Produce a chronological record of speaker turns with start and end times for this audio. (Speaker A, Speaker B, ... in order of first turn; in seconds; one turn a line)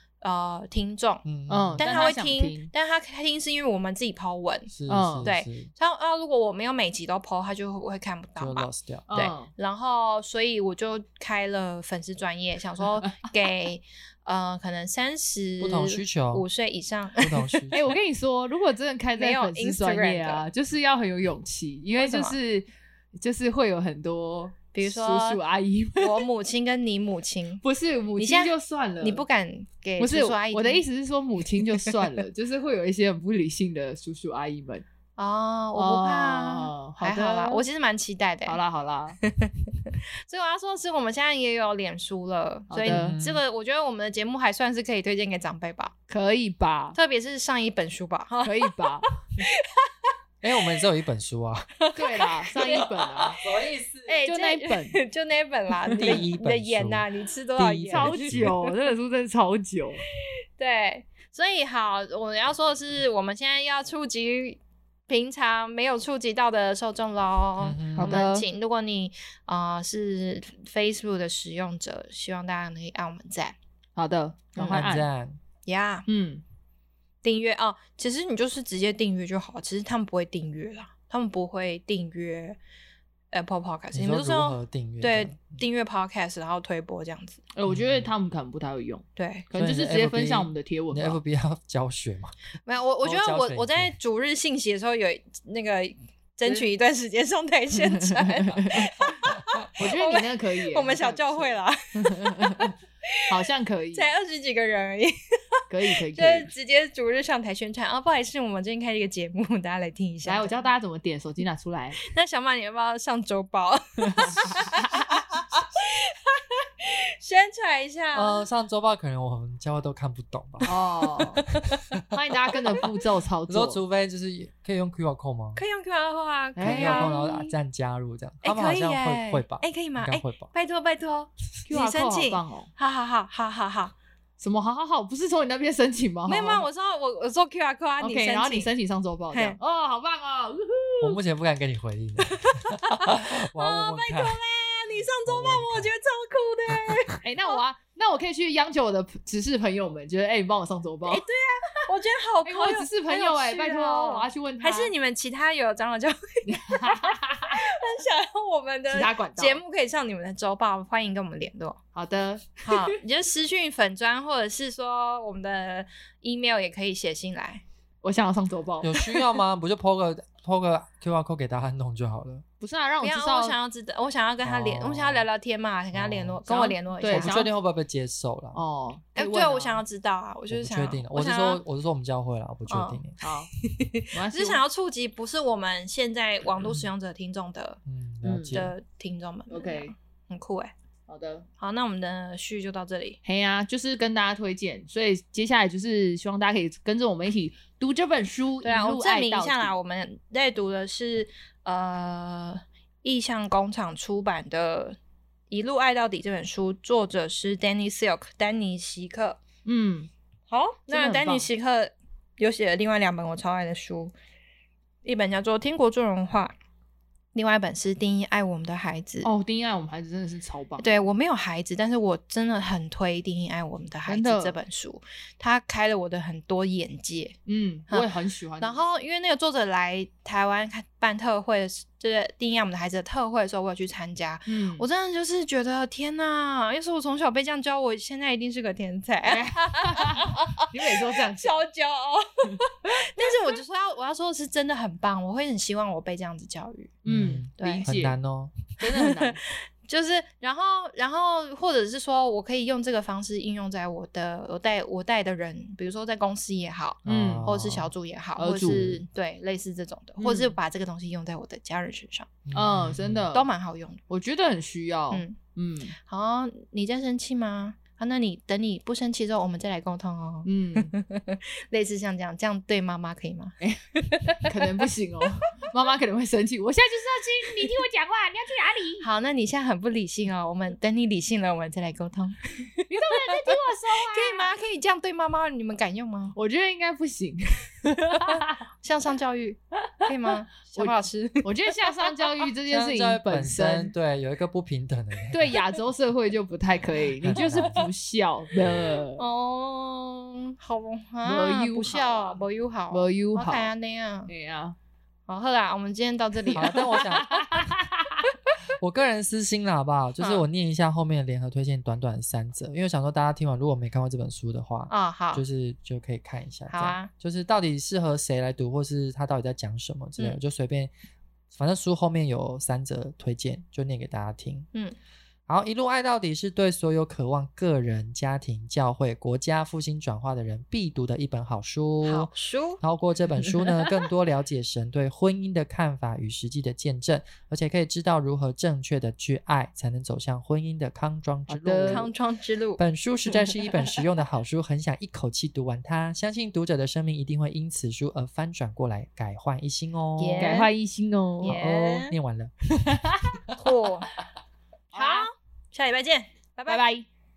Speaker A: 0.2-1.2
Speaker B: 1.2-2.0
Speaker C: 1.5-2.7
Speaker A: 1.8-4.7
Speaker B: 4.7-5.7
Speaker C: 4.9-5.3
Speaker A: 5.2-17.7
Speaker B: 8.4-9.1
Speaker C: 9.1-9.5
Speaker C: 12.8-13.3
Speaker B: 15.6-16.4
Speaker B: 17.2-17.8
Speaker C: 17.7-26.2
Speaker A: 19.2-20.4
Speaker A: 22.0-22.4
Speaker A: 24.7-25.4
Speaker A: 25.9-27.6
Speaker C: 27.6-29.2
Speaker A: 28.2-30.8
Speaker C: 30.0-34.8
Speaker A: 35.2-38.6
Speaker C: 35.7-37.6
Speaker C: 38.5-39.2
Speaker A: 39.2-45.9
Speaker C: 42.7-43.1
Speaker B: 42.9-43.4
Speaker C: 46.1-47.0
Speaker A: 46.9-48.7
Speaker C: 48.4-49.0
Speaker A: 49.4-50.1
Speaker B: 50.4-51.9
Speaker A: 51.8-52.8
Speaker C: 51.9-53.4
Speaker B: 52.8-54.2
Speaker A: 54.1-58.6
Speaker C: 54.2-55.0
Speaker B: 56.0-57.0
Speaker B: 57.5-58.5
Speaker C: 57.9-60.0
Speaker A: 60.6-64.6
Speaker A: 65.1-73.5
Speaker B: 67.6-68.2
Speaker C: 68.0-68.4
Speaker C: 74.0-75.0
Speaker A: 74.6-74.8
Speaker B: 74.7-75.4
Speaker A: 75.7-76.0
Speaker C: 76.0-76.4
Speaker A: 77.2-82.6
Speaker A: 83.3-87.4
Speaker B: 83.9-85.5
Speaker C: 87.5-91.2
Speaker B: 87.7-88.1
Speaker A: 89.2-89.5
Speaker B: 89.6-92.3
Speaker A: 92.7-103.2
Speaker B: 93.0-93.9
Speaker C: 97.7-99.1
Speaker C: 99.8-102.7
Speaker C: 103.3-104.1
Speaker A: 103.9-105.6
Speaker C: 105.7-106.5
Speaker A: 106.1-110.7
Speaker C: 110.2-112.0
Speaker A: 112.0-118.4
Speaker C: 114.0-115.0
Speaker B: 118.1-122.0
Speaker C: 120.6-121.4
Speaker C: 122.1-123.8
Speaker B: 123.5-125.6
Speaker A: 125.5-127.5
Speaker C: 126.5-127.1
Speaker B: 126.6-130.5
Speaker A: 128.4-133.9
Speaker C: 131.7-132.7
Speaker C: 134.4-136.7
Speaker A: 136.3-138.7
Speaker C: 138.0-141.2
Speaker A: 139.3-139.6
Speaker B: 141.0-144.4
Speaker A: 142.3-147.6
Speaker B: 145.2-145.9
Speaker C: 147.2-151.2
Speaker A: 151.1-161.8
Speaker C: 152.4-154.9
Speaker C: 156.4-157.6
Speaker C: 158.9-159.6
Speaker C: 161.9-162.9
Speaker A: 162.6-167.6
Speaker C: 168.0-169.1
Speaker B: 168.8-172.4
Speaker C: 172.6-173.6
Speaker A: 173.0-177.4
Speaker B: 174.4-175.2
Speaker B: 175.9-176.4
Speaker C: 176.4-177.5
Speaker B: 177.0-178.6
Speaker C: 178.5-179.8
Speaker A: 179.2-181.6
Speaker B: 180.5-183.1
Speaker A: 182.7-183.0
Speaker C: 183.2-183.5
Speaker A: 183.6-187.8
Speaker C: 184.1-184.6
Speaker B: 186.6-186.9
Speaker B: 187.9-188.7
Speaker C: 188.2-188.6
Speaker A: 188.5-190.7
Speaker C: 189.5-189.9
Speaker C: 191.1-191.4
Speaker A: 191.6-193.2
Speaker C: 193.2-199.7
Speaker A: 198.6-205.0
Speaker A: 205.5-209.4
Speaker C: 209.7-210.1
Speaker A: 210.5-214.1
Speaker C: 210.9-211.5
Speaker A: 215.0-216.5
Speaker A: 217.3-219.3
Speaker C: 219.2-221.0
Speaker A: 220.8-227.4
Speaker C: 224.1-224.6
Speaker C: 227.4-228.8
Speaker A: 228.6-247.0
Speaker C: 234.5-234.8
Speaker C: 239.2-241.6
Speaker C: 247.0-248.2
Speaker B: 247.1-248.6
Speaker A: 247.6-247.9
Speaker C: 248.8-249.4
Speaker A: 249.9-262.3
Speaker C: 257.1-257.5
Speaker B: 257.1-257.9
Speaker C: 258.4-259.0
Speaker C: 260.2-260.6
Speaker B: 262.5-263.2
Speaker C: 262.5-263.5
Speaker A: 263.3-264.0
Speaker C: 264.1-265.9
Speaker A: 266.1-274.6
Speaker C: 270.4-270.9
Speaker C: 273.6-279.1
Speaker A: 279.0-286.4
Speaker C: 282.9-284.5
Speaker C: 286.3-288.6
Speaker A: 288.8-291.5
Speaker C: 290.7-293.9
Speaker B: 292.7-295.6
Speaker C: 295.3-299.2
Speaker B: 297.2-297.8
Speaker A: 297.4-297.8
Speaker A: 299.2-304.3
Speaker C: 301.2-303.7
Speaker C: 304.3-304.8
Speaker A: 305.3-307.3
Speaker B: 306.5-307.4
Speaker C: 307.0-308.2
Speaker B: 308.8-320.9
Speaker A: 310.2-310.4
Speaker A: 314.9-315.4
Speaker A: 316.7-317.1
Speaker B: 321.5-324.7
Speaker B: 325.5-342.1
Speaker A: 332.0-332.8
Speaker A: 333.5-333.9
Speaker C: 341.5-342.1
Speaker A: 341.9-342.8
Speaker B: 342.8-350.6
Speaker A: 350.2-350.7
Speaker C: 350.4-351.6
Speaker A: 351.4-352.1
Speaker B: 351.4-353.0
Speaker C: 352.9-353.3
Speaker A: 353.6-354.1
Speaker C: 354.9-355.3
Speaker A: 354.9-356.8
Speaker C: 356.7-357.0